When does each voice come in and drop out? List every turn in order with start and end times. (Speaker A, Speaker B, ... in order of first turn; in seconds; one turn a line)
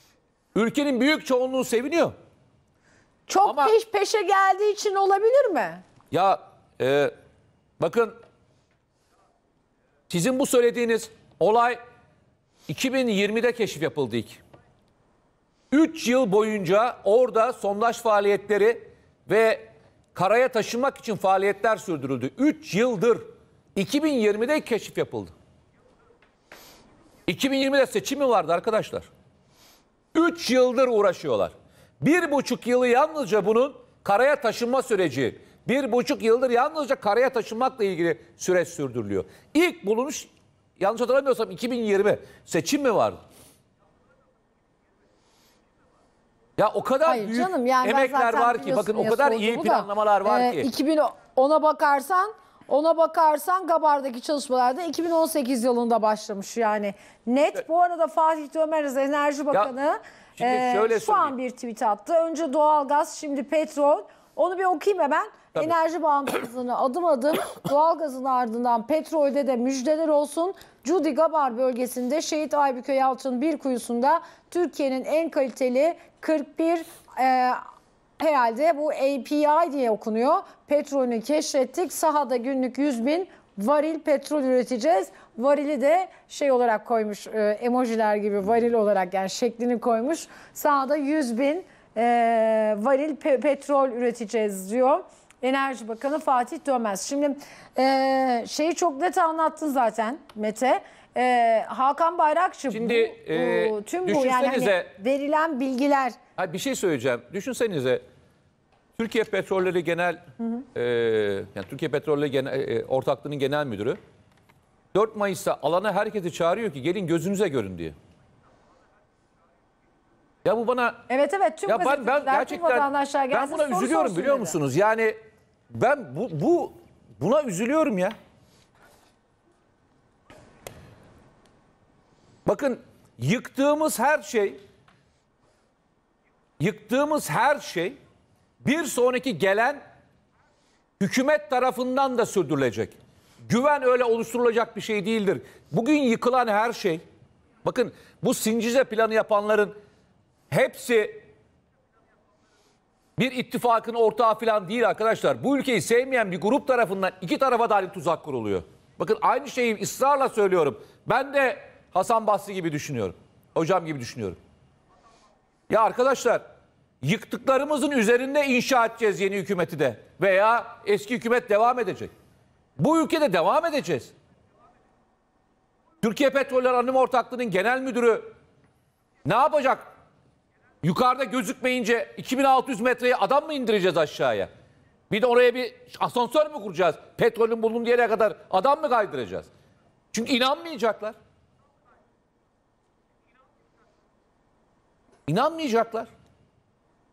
Speaker A: 0.6-2.1
Speaker B: 3.3-5.8
Speaker A: 3.4-3.7
Speaker A: 6.1-7.1
Speaker A: 7.8-8.1
Speaker A: 10.1-11.8
Speaker A: 12.7-14.4
Speaker A: 15.7-23.2
Speaker A: 23.8-25.4
Speaker A: 27.3-29.1
Speaker A: 30.1-43.2
Speaker A: 46.6-50.7
Speaker B: 47.1-77.6
Speaker A: 60.4-61.4
Speaker B: 78.2-106.2
Speaker A: 102.7-104.9
Speaker A: 106.4-108.0
Speaker A: 109.0-110.2
Speaker A: 110.8-114.0
Speaker A: 114.9-117.9
Speaker A: 120.4-121.0
Speaker B: 121.1-124.6
Speaker A: 121.7-125.2
Speaker A: 125.7-128.2
Speaker A: 132.5-134.6
Speaker A: 136.6-138.0
Speaker A: 138.6-139.8
Speaker A: 141.0-147.0
Speaker A: 147.7-149.7
Speaker A: 150.5-151.2
Speaker A: 153.2-164.4
Speaker A: 165.7-166.4
Speaker A: 167.0-172.1
Speaker A: 172.8-174.1
Speaker A: 176.0-178.3
Speaker A: 179.2-179.8
Speaker A: 180.8-184.5
Speaker A: 185.1-189.5
Speaker A: 190.1-191.2
Speaker A: 195.3-196.1